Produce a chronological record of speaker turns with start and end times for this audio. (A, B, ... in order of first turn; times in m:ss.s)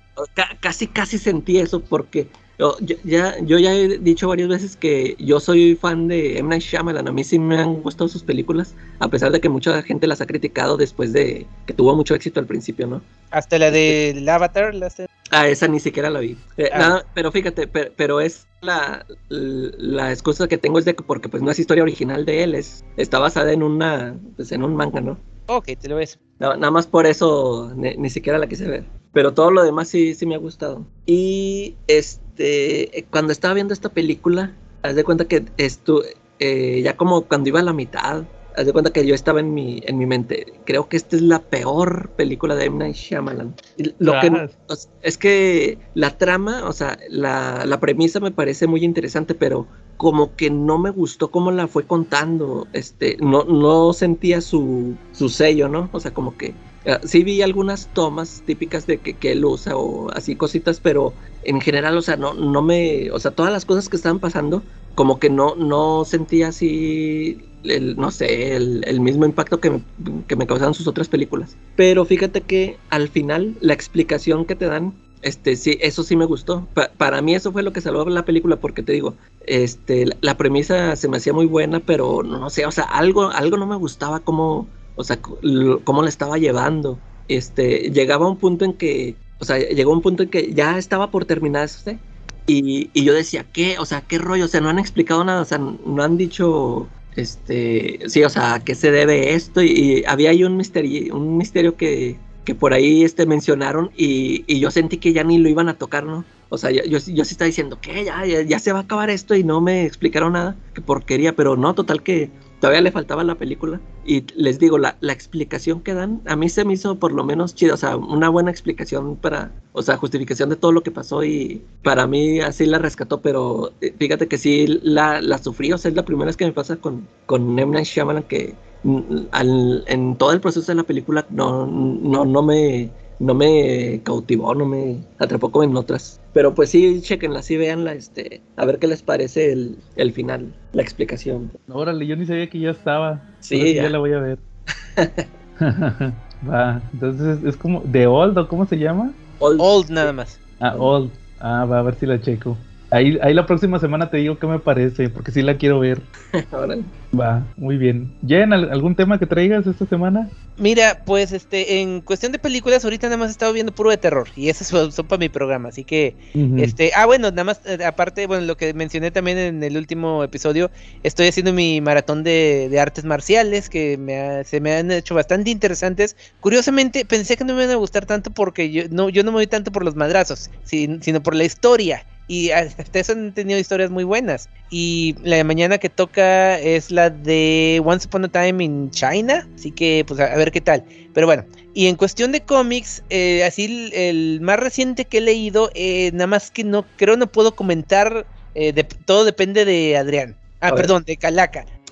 0:00.2-0:13.1 A
0:13.3-0:15.1 B
0:13.7-0:14.0 A
0:15.3-0:25.2 A
0:16.7-0:17.0 B
0:25.5-0:26.2 B
0:26.4-2:21.6 A
0:44.0-0:44.5 C
2:21.7-2:24.4 C
2:23.4-2:24.0 A
2:25.0-2:25.3 A
2:25.6-2:29.2 C
2:29.4-2:30.1 A
2:29.6-2:30.4 B
2:30.6-2:36.1 C
2:36.3-2:36.9 A
2:37.1-2:40.3 C
2:40.6-3:21.7 B
2:46.4-2:46.8 C